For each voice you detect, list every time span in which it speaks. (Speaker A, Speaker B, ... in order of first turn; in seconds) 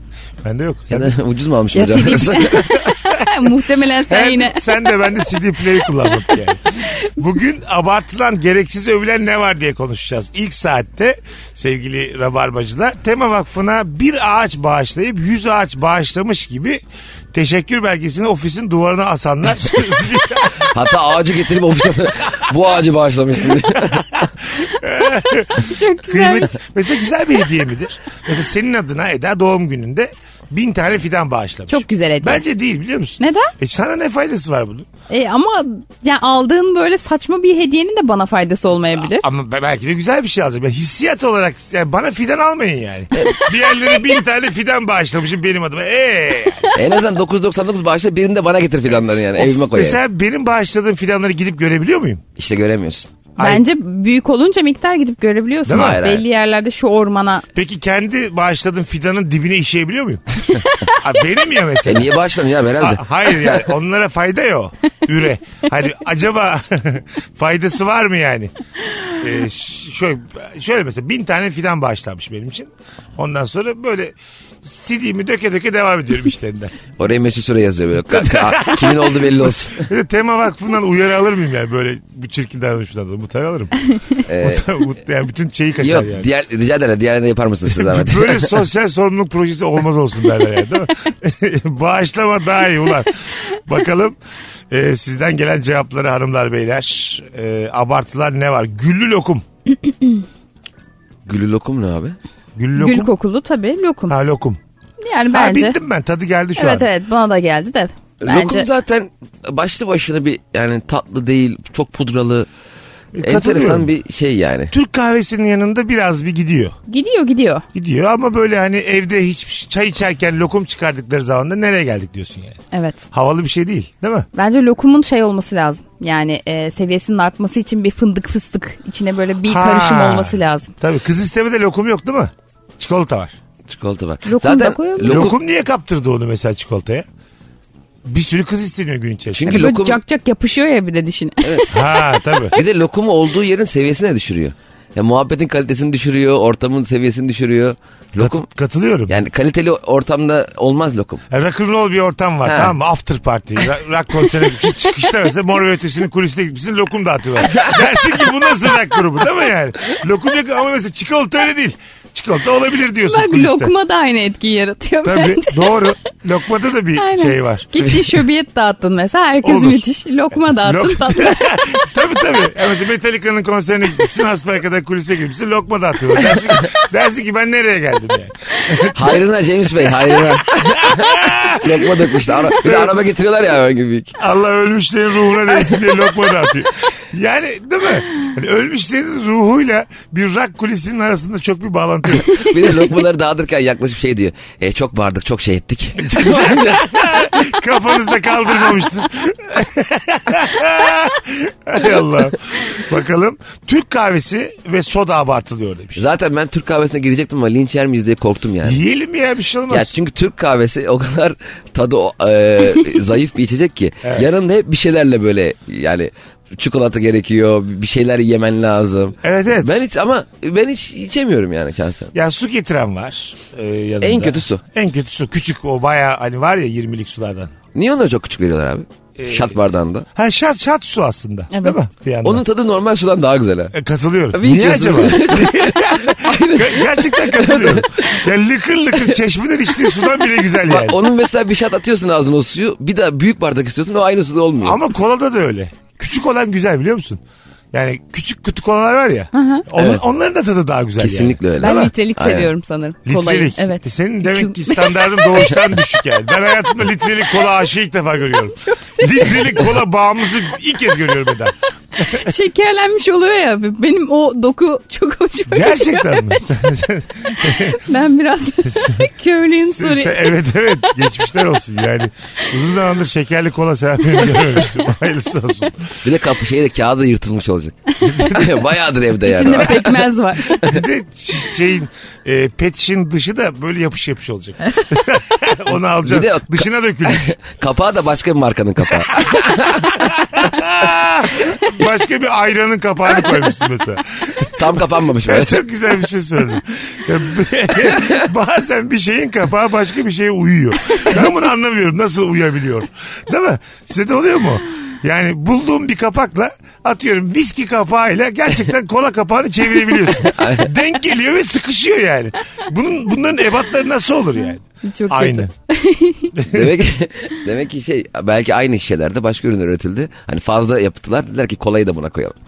Speaker A: 0.4-1.1, 2.9-3.2, 4.1-16.8, 17.3-20.7, 23.8-34.9, 39.0-46.7, 49.4-52.2, 53.4-53.6, 55.7-56.0, 57.5-62.1, 62.8-68.5, 69.2-76.7, 78.1-83.8, 84.4-86.3, 87.7-94.2, 94.7-99.4, 102.5-103.1, 104.1-104.6, 105.3-106.8, 113.1-113.9, 114.7-116.7, 117.7-122.6, 123.1-124.3, 129.5-133.3, 135.1-137.1, 138.0-139.7, 141.7-142.6, 148.2-149.1, 151.3-163.7, 165.0-167.7, 169.4-169.8, 170.5-179.1, 180.8-183.0, 184.2-192.7, 196.0-206.0, 208.6-209.9, 219.2-219.8, 222.1-227.5, 229.2-229.5, 230.1-232.4, 233.7-241.0, 244.6-247.2, 247.7-251.9, 253.1-262.3, 265.5-267.8, 268.6-269.1, 269.6-275.9, 278.0-278.5, 280.6-287.3, 289.9-315.5, 316.3-316.7
Speaker B: 0.9-2.8, 20.6-24.0, 43.1-43.4, 46.7-50.0, 52.4-53.1, 55.7-56.2, 61.8-63.7, 77.0-79.9, 84.2-84.8, 85.8-88.6, 101.2-102.2, 108.2-112.5, 113.2-114.7, 133.7-135.3, 139.3-140.0, 142.5-148.5, 149.1-151.2, 152.4-152.7, 178.9-184.1, 192.2-196.8, 205.9-208.8, 209.7-222.1, 224.0-224.6, 227.7-230.0, 232.2-233.7, 234.3-238.2, 240.6-244.8, 249.8-250.0, 251.0-252.5, 276.0-277.8, 278.3-280.0, 286.0-289.9, 294.5-295.6, 310.3-310.7, 316.5-322.3
Speaker C: 1.7-4.8, 25.6-26.5, 31.7-32.4, 33.2-33.5, 35.1-39.2, 53.4-57.5, 102.8-104.2, 105.0-105.8, 106.5-108.7, 116.9-117.6, 122.7-123.0, 124.3-130.7, 134.2-135.3, 139.5-141.7, 163.1-165.9, 166.9-171.8, 231.5-231.8, 249.3-249.7, 251.6-255.6, 258.5-259.5, 262.0-266.5, 267.4-270.3, 277.9-278.4, 279.2-280.6, 314.8-316.3